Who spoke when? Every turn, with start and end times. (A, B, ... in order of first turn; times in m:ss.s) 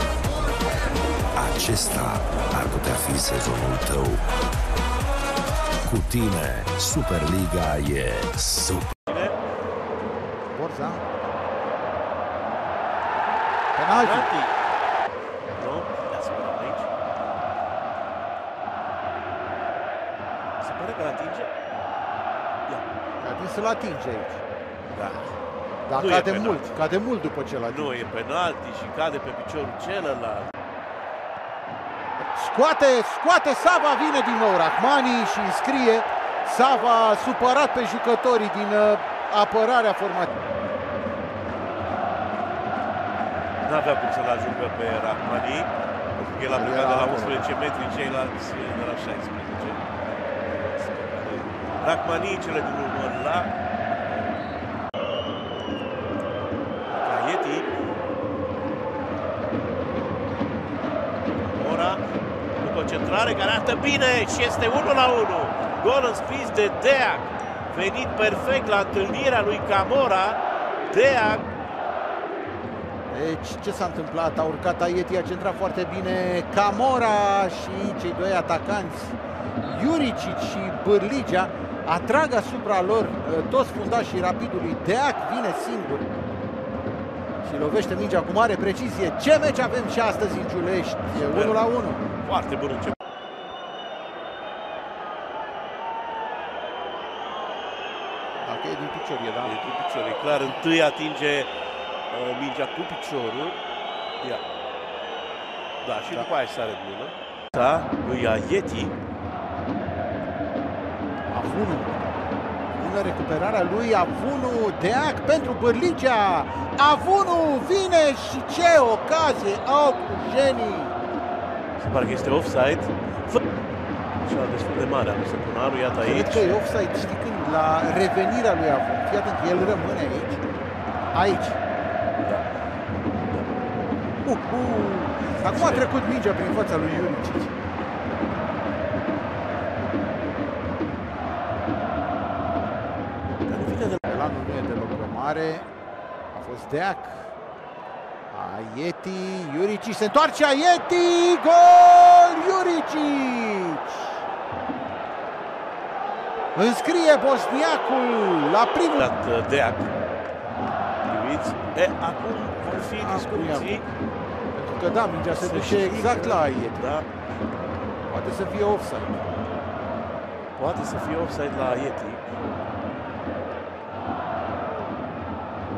0:01.4-0:04.2 A
0:05.8-0:08.9 A
0:09.0-0:09.4 B
0:10.5-0:11.0 C
0:13.7-0:14.3 C
0:13.9-0:14.6 B
0:15.5-0:16.9 B
0:20.6-0:21.5 B
0:23.2-0:24.4 C
0:24.9-0:25.3 B
0:25.8-0:28.0 C
0:25.9-0:26.8 B
0:27.6-0:30.5 B
0:32.2-0:40.3 C
0:43.6-0:49.8 B
0:46.5-0:47.5 C
0:50.5-0:53.5 B
0:56.9-0:57.7 B
1:01.4-1:02.0 B
1:02.6-1:11.4 B
1:13.1-1:26.0 C
1:27.4-1:32.0 C
1:31.1-1:31.6 B
1:32.2-1:33.0 B
1:38.4-1:39.6 C
1:39.4-1:41.5 B
1:42.1-1:43.6 B
1:45.8-1:48.9 B
1:46.0-1:46.3 C
1:51.3-1:52.2 C
1:52.7-2:01.0 C
2:01.8-2:03.4 B
2:04.2-2:06.6 B
2:05.9-2:10.4 C
2:11.1-2:11.6 C
2:13.2-2:13.5 B
2:14.2-2:17.5 C
2:15.4-2:15.9 B
2:23.5-2:24.0 B
2:24.0-2:25.7 C
2:26.3-2:27.3 C
2:28.3-2:34.2 C
2:36.5-2:39.1 C
2:38.9-2:39.9 B
2:41.0-2:43.9 B
2:42.8-2:43.9 C
2:44.5-2:46.8 C
2:45.3-2:47.1 B
2:48.1-2:49.2 C
2:50.6-2:52.2 B